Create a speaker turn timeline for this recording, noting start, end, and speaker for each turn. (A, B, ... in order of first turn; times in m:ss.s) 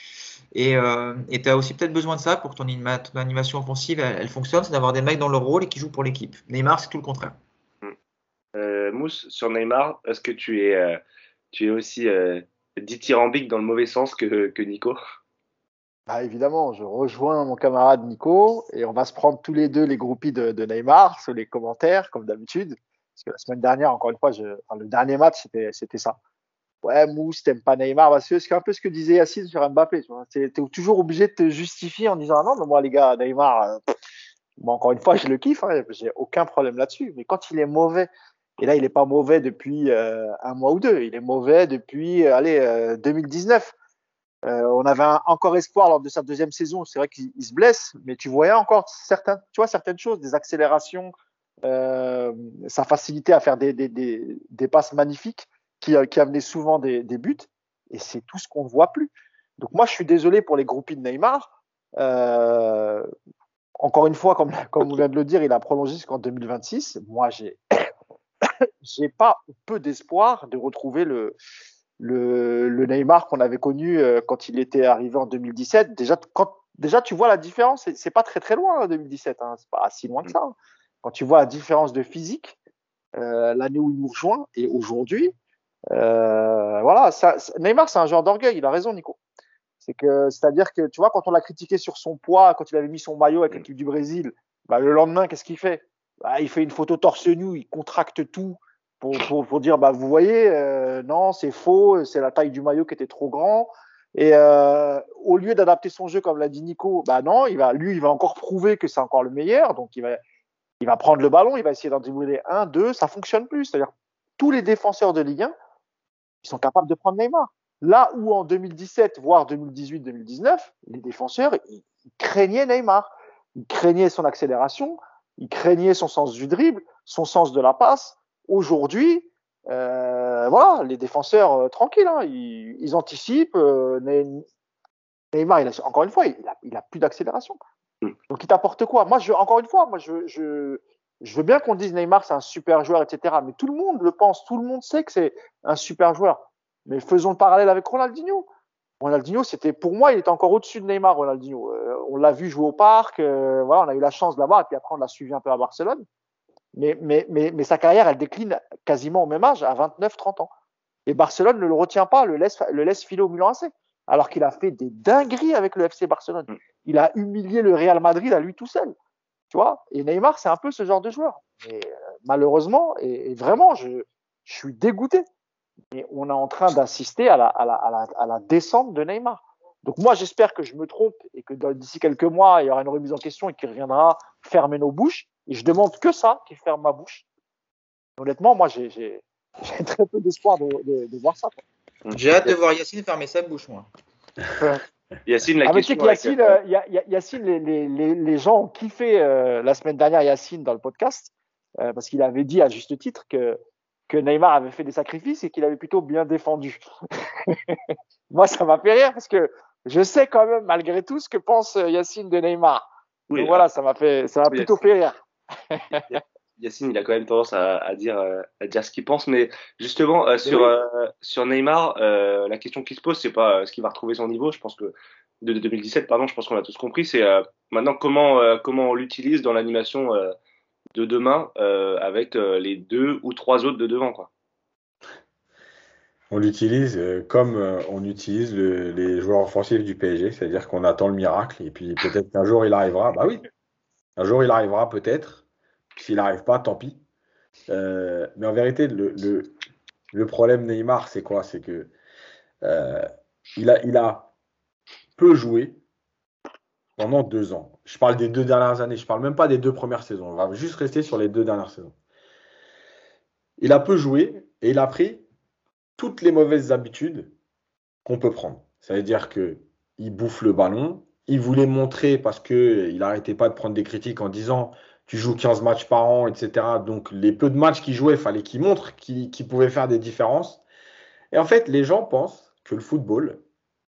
0:00.5-0:07.4 A
0:08.5-0:11.0 B
0:11.5-0:15.0 B
0:16.1-0:26.2 C
0:26.8-0:33.8 C
0:34.6-0:43.7 C
0:44.4-0:51.1 C
0:51.6-1:03.1 C
1:03.8-1:07.9 C
1:08.8-1:11.4 C
1:12.0-1:22.6 C
1:23.2-1:25.3 C
1:25.9-1:29.2 C
1:29.8-1:50.2 C
1:50.8-1:55.5 C
1:56.4-2:14.4 C
2:15.3-2:17.6 C
2:18.3-2:28.4 C
2:29.0-2:36.0 C
2:36.8-2:40.5 C
2:41.1-2:48.9 C
2:49.5-2:55.2 C
2:55.9-3:07.2 C
3:08.2-3:11.6 C
3:12.0-3:12.5 B
3:12.1-3:13.9 A
3:15.2-3:16.6 B
3:15.6-3:27.8 C
3:28.3-3:36.1 C
3:33.3-3:33.6 B
3:34.5-3:34.8 B
3:36.1-3:50.3 B
3:40.4-3:40.7 C
3:50.9-3:54.3 B
3:56.3-4:03.4 D
4:04.2-4:05.4 D
4:06.0-4:07.0 D
4:07.7-4:09.5 D
4:10.1-4:11.9 D
4:12.6-4:13.0 D
4:13.6-4:14.3 D
4:15.2-4:15.8 D
4:17.0-4:21.9 D
4:23.6-4:25.2 D
4:26.0-4:27.3 D
4:28.0-4:40.6 D
4:41.3-4:43.4 D